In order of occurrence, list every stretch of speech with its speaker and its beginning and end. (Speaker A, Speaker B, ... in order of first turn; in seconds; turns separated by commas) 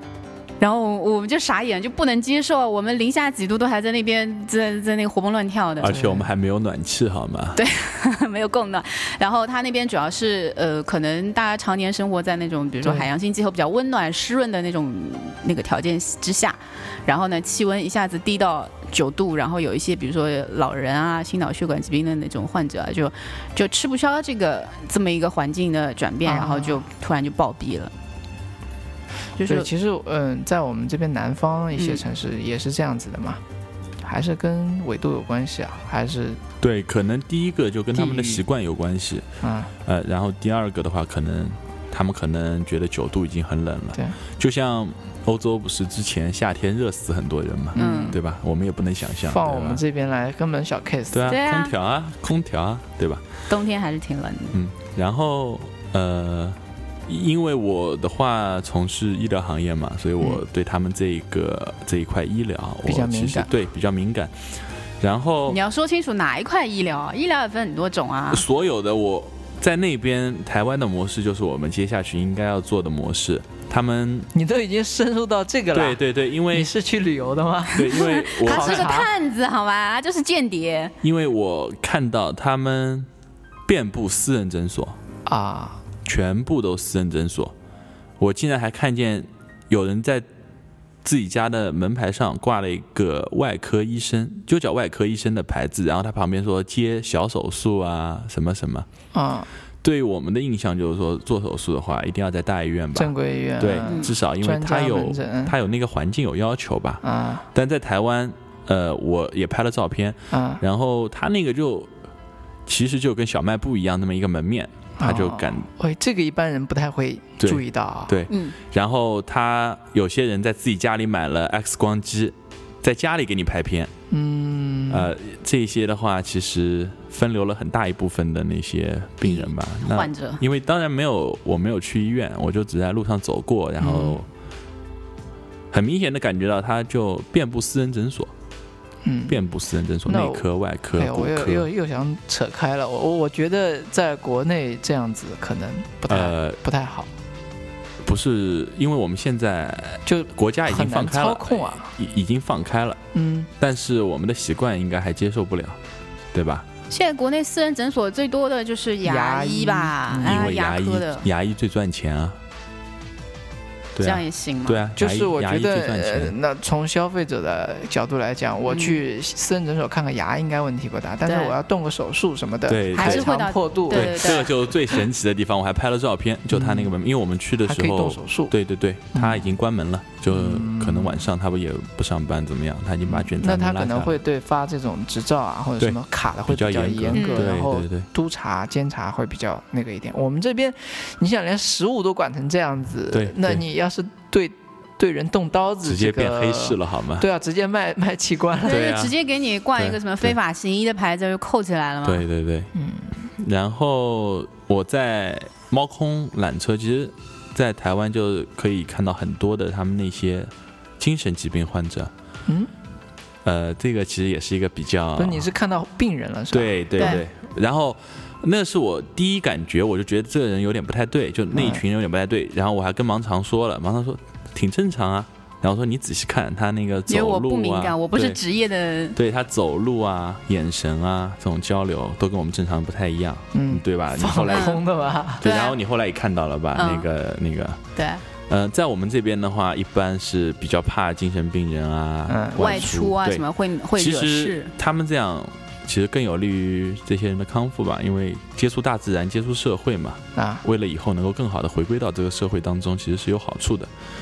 Speaker A: 0.6-5.9, Speaker B: 5.8-7.6, Speaker C: 5.9-6.3, Speaker A: 7.6-27.9, Speaker C: 12.8-13.1, Speaker C: 26.2-26.9, Speaker A: 29.4-29.7, Speaker C: 29.4-33.4, Speaker A: 31.8-32.0, Speaker C: 34.0-36.4, Speaker B: 36.6-39.3, Speaker C: 37.9-38.4, Speaker C: 39.4-39.7, Speaker B: 39.9-49.8, Speaker C: 47.7-48.2, Speaker A: 47.8-48.2, Speaker C: 49.2-51.4, Speaker B: 51.1-53.4, Speaker A: 51.3-51.7, Speaker A: 53.5-54.6, Speaker B: 54.5-64.3, Speaker C: 62.9-63.5, Speaker B: 65.0-65.6, Speaker A: 65.5-68.4, Speaker B: 68.3-74.3, Speaker C: 74.3-76.0, Speaker B: 75.7-76.7, Speaker C: 76.5-79.1, Speaker B: 77.7-78.9, Speaker A: 77.8-80.9, Speaker B: 81.0-83.1, Speaker B: 83.7-85.0, Speaker C: 85.3-85.8, Speaker B: 86.0-87.5, Speaker B: 88.2-90.2, Speaker B: 91.0-98.9, Speaker C: 99.1-99.5, Speaker B: 99.8-111.9, Speaker C: 103.0-105.5, Speaker A: 103.8-104.1, Speaker C: 107.0-107.5, Speaker C: 110.3-110.6, Speaker B: 112.7-115.7, Speaker C: 115.0-118.2, Speaker B: 117.4-123.9, Speaker A: 118.3-118.6, Speaker C: 124.1-125.1, Speaker B: 124.9-134.3, Speaker A: 129.2-130.4, Speaker C: 133.8-134.2, Speaker B: 135.7-138.3, Speaker C: 139.0-139.4, Speaker B: 139.3-141.7, Speaker C: 140.1-140.4, Speaker C: 141.0-147.1, Speaker B: 146.1-146.6, Speaker B: 148.0-153.0, Speaker C: 150.1-151.9, Speaker C: 153.1-153.5, Speaker B: 153.6-155.8, Speaker B: 156.3-156.7, Speaker A: 156.9-161.3, Speaker C: 159.0-160.5, Speaker B: 160.2-162.4, Speaker B: 163.9-166.3, Speaker A: 164.0-164.8, Speaker C: 165.0-175.0, Speaker A: 168.6-169.0, Speaker A: 171.3-171.6, Speaker B: 172.7-173.3, Speaker A: 173.0-174.5, Speaker B: 173.9-184.1, Speaker C: 176.5-176.9, Speaker C: 177.6-178.5, Speaker C: 179.2-179.5, Speaker C: 180.3-181.2, Speaker C: 183.1-198.9, Speaker B: 185.8-188.1, Speaker A: 187.1-187.5, Speaker B: 193.1-193.6, Speaker B: 195.8-197.3, Speaker A: 198.7-202.3, Speaker B: 198.7-199.1, Speaker B: 199.8-200.3, Speaker B: 202.0-202.7, Speaker C: 202.8-203.2, Speaker B: 203.4-212.1, Speaker C: 212.5-212.7, Speaker B: 213.4-215.5, Speaker C: 215.2-217.2, Speaker B: 216.5-228.4, Speaker C: 221.5-221.8, Speaker A: 227.1-229.2, Speaker B: 229.2-237.8, Speaker C: 233.5-235.5, Speaker A: 234.5-234.8, Speaker A: 235.4-235.8, Speaker A: 236.8-237.1, Speaker A: 238.0-238.2, Speaker B: 238.5-253.9, Speaker C: 242.3-242.9, Speaker A: 242.6-244.7, Speaker C: 250.3-250.6